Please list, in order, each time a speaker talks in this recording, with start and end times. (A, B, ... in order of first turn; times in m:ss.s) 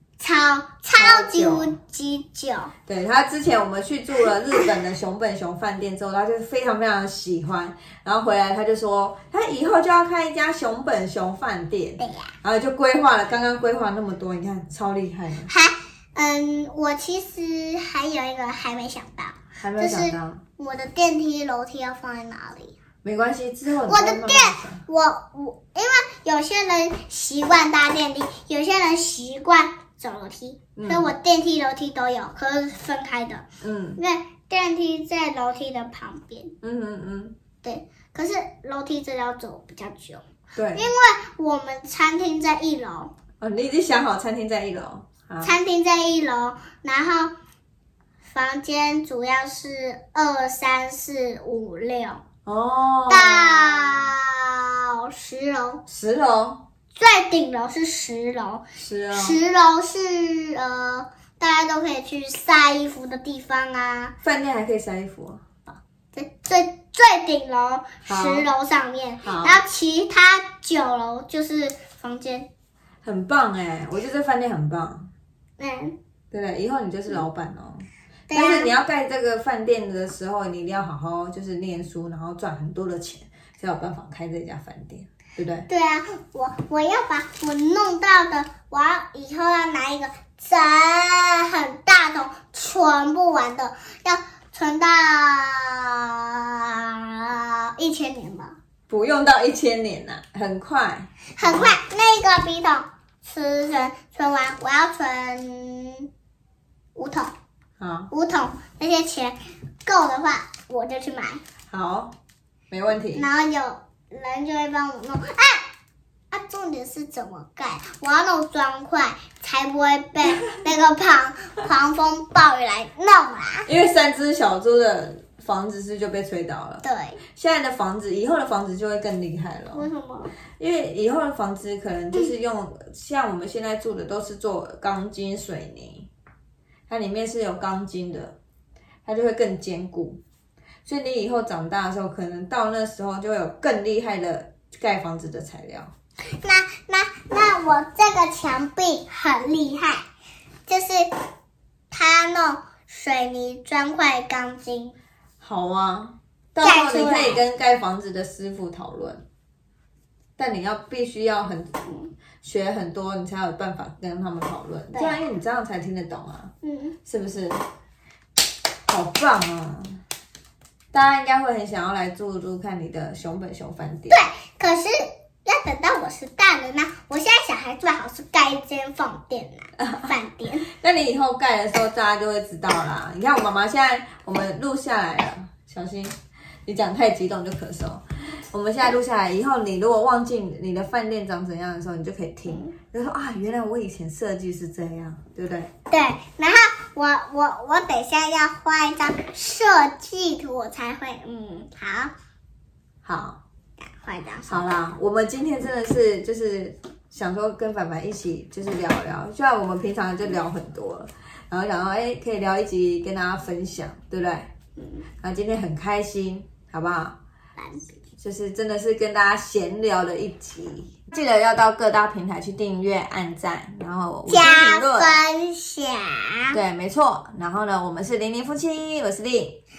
0:00.2-0:02.7 A
0:00.9-0:01.7 B
0:02.9-0:15.5 B
0:12.0-0:12.3 A
0:15.5-0:22.7 A
0:19.6-0:20.4 B
0:23.0-0:24.8 B
0:23.9-0:33.4 A
0:30.8-0:31.1 B
0:33.6-0:34.0 B
0:34.0-0:36.5 A
0:36.6-0:37.4 B
0:37.6-0:43.1 A
0:40.5-0:40.9 B
0:43.4-0:45.5 B
0:45.4-0:47.3 A
0:48.3-0:52.2 A
0:52.4-0:54.1 B
0:53.1-0:55.8 A
0:55.9-0:56.6 B
0:57.0-1:04.1 A
0:58.8-0:59.4 B
1:04.2-1:05.8 B
1:06.1-1:12.5 A
1:08.0-1:08.5 B
1:09.2-1:09.6 B
1:13.0-1:15.1 B
1:15.6-1:16.0 A
1:16.3-1:25.7 B
1:18.3-1:18.7 A
1:25.7-1:38.5 A
1:38.9-1:41.8 B
1:41.4-1:46.1 A
1:46.9-1:47.3 A
1:47.8-1:48.1 B
1:48.1-1:51.4 A
1:51.7-1:52.1 B
1:52.7-1:53.3 B
1:53.1-1:55.6 A
1:56.3-2:03.7 A
2:03.7-2:06.8 B
2:06.8-2:07.2 A
2:07.3-2:09.8 B
2:09.7-2:10.3 A
2:10.6-2:16.1 B
2:16.9-2:18.4 B
2:19.0-2:20.2 B
2:20.8-2:25.9 B
2:26.4-2:30.0 A
2:30.7-2:31.1 A
2:31.9-2:35.0 A
2:35.4-2:39.2 B
2:36.6-2:37.4 A
2:40.4-2:41.8 B
2:42.4-2:46.5 B
2:44.9-2:45.2 A
2:46.6-2:47.0 A
2:47.0-2:47.6 B
2:48.9-2:50.0 B
2:50.9-2:54.2 B
2:54.1-3:00.7 A
2:59.8-3:00.1 B
3:00.7-3:15.7 B
3:12.4-3:12.7 A
3:15.9-3:22.1 A
3:23.0-3:23.4 B
3:23.9-3:24.7 A
3:24.5-3:34.5 B
3:34.8-3:35.0 A
3:35.2-3:37.2 B
3:37.6-3:37.8 A
3:38.2-3:45.2 B
3:44.3-3:46.6 A
3:46.5-3:49.6 B